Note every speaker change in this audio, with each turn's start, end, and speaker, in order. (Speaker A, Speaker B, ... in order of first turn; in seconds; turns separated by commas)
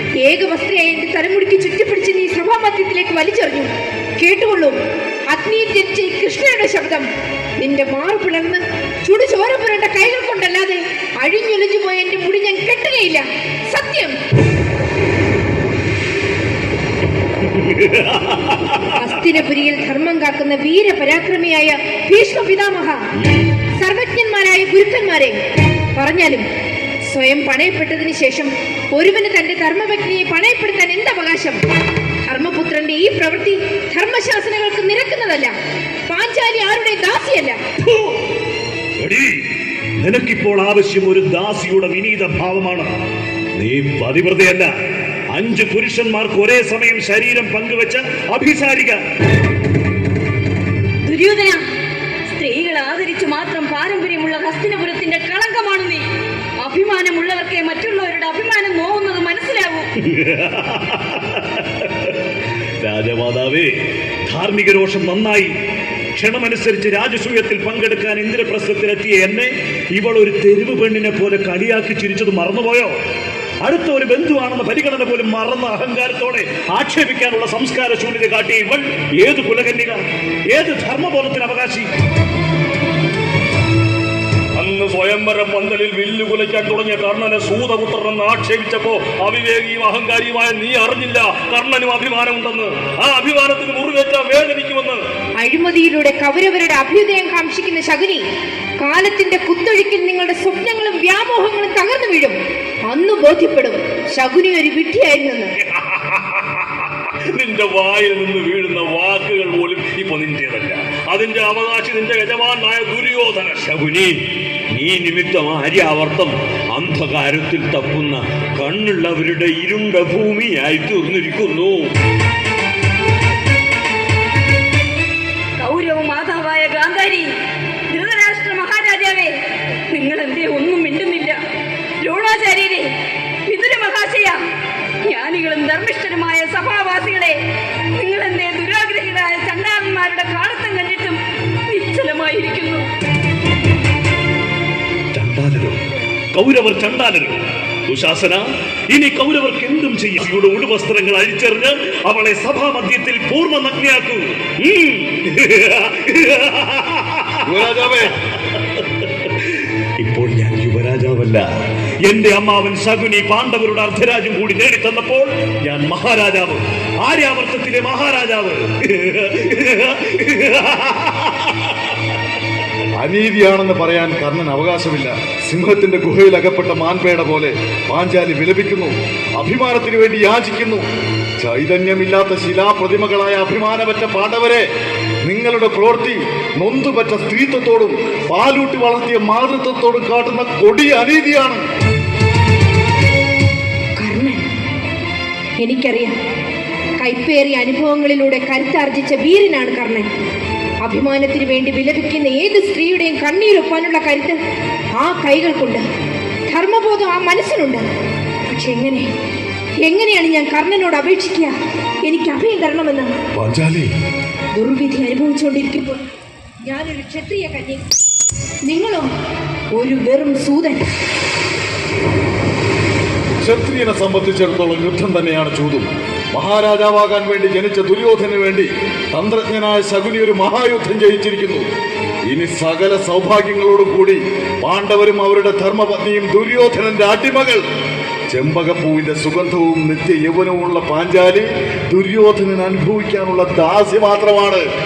Speaker A: 0.2-4.8, Speaker A: 5.3-14.2, Speaker A: 18.9-23.0, Speaker A: 23.8-25.4, Speaker A: 25.9-26.4, Speaker A: 27.1-31.6, Speaker A: 32.2-35.5, Speaker A: 36.1-37.6, Speaker B: 39.0-39.4, Speaker B: 40.0-42.9, Speaker B: 43.5-44.7, Speaker B: 45.3-49.0, Speaker C: 51.0-51.7, Speaker C: 52.3-56.1, Speaker C: 56.6-59.9, Speaker B: 60.0-61.9, Speaker B: 62.8-63.7, Speaker B: 64.3-65.5, Speaker B: 66.1-73.0, Speaker B: 73.6-81.9, Speaker D: 84.5-95.0, Speaker A: 95.4-98.2, Speaker A: 98.8-105.5, Speaker E: 105.7-106.2, Speaker D: 107.4-110.3, Speaker E: 108.4-121.9, Speaker D: 111.2-113.2, Speaker C: 125.6-127.3, Speaker C: 127.9-129.4, Speaker C: 129.9-131.4, Speaker C: 132.0-132.9, Speaker C: 133.5-134.4, Speaker C: 135.0-137.4, Speaker C: 137.9-142.9, Speaker B: 145.1-145.8, Speaker B: 146.3-157.9, Speaker F: 157.4-158.1, Speaker B: 159.4-161.5, Speaker B: 162.0-171.7, Speaker F: 173.0-180.8, Speaker F: 181.4-184.7, Speaker F: 185.2-191.6, Speaker A: 194.0-194.4, Speaker A: 195.6-196.2, Speaker A: 197.0-200.1, Speaker A: 200.8-204.4, Speaker A: 204.9-205.8, Speaker A: 206.5-207.8, Speaker A: 208.5-209.1, Speaker A: 209.8-213.1, Speaker F: 213.3-213.9, Speaker A: 214.6-216.0, Speaker A: 216.6-217.9, Speaker A: 218.7-219.1, Speaker A: 219.7-220.8, Speaker F: 223.4-231.7, Speaker F: 232.3-237.6, Speaker F: 238.3-244.6